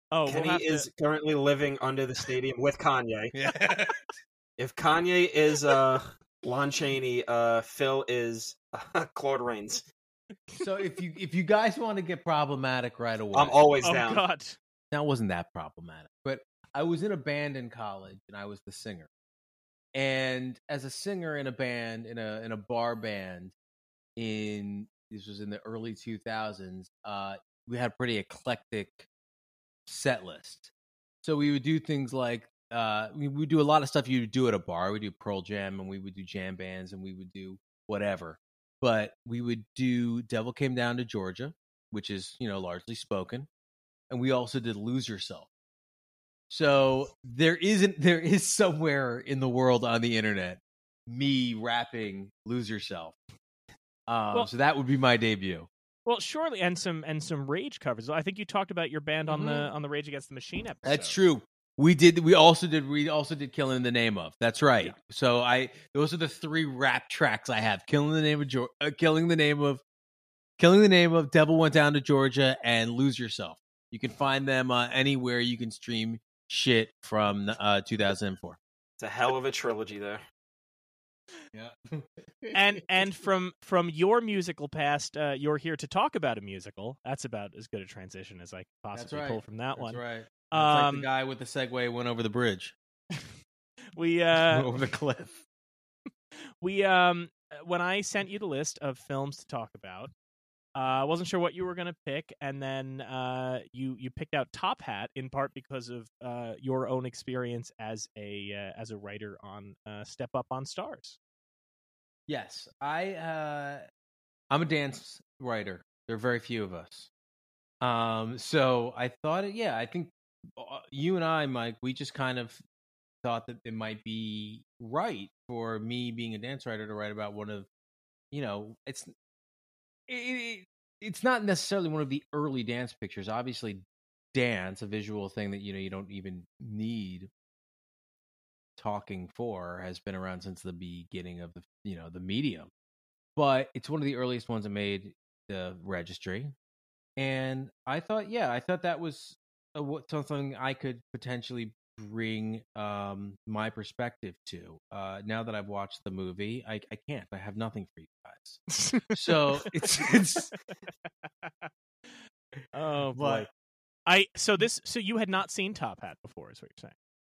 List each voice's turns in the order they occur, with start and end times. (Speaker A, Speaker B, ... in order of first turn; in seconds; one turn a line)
Speaker A: 0.1-0.9
Speaker B: 0.3-3.3
Speaker C: 3.3-4.0
Speaker B: 4.6-9.9
Speaker C: 10.6-13.6
Speaker B: 13.3-14.2
Speaker A: 13.8-14.6
Speaker C: 14.9-19.1
Speaker C: 19.9-23.5
Speaker C: 24.2-29.1
Speaker C: 29.9-30.7
Speaker C: 31.2-43.5
Speaker C: 44.1-45.5
Speaker C: 46.5-53.2
Speaker C: 54.1-55.7
Speaker A: 56.1-61.2
Speaker C: 59.3-59.7
Speaker C: 60.8-69.8
Speaker C: 70.6-78.6
Speaker B: 79.0-80.2
Speaker C: 81.5-82.6
Speaker A: 82.5-90.0
Speaker C: 88.9-92.8
Speaker A: 90.5-91.1
Speaker A: 94.0-94.7
Speaker C: 94.3-95.4
Speaker A: 96.6-100.1
Speaker A: 100.8-111.2
Speaker C: 112.3-113.8
Speaker C: 114.5-117.1
Speaker C: 117.8-122.6
Speaker C: 123.2-127.7
Speaker C: 128.3-129.1
Speaker C: 130.1-133.8
Speaker C: 134.3-137.3
Speaker C: 138.8-142.7
Speaker C: 143.4-146.5
Speaker C: 147.2-160.5
Speaker A: 158.7-159.7
Speaker A: 161.4-161.7
Speaker A: 162.7-163.5
Speaker C: 163.1-163.5
Speaker A: 164.1-166.9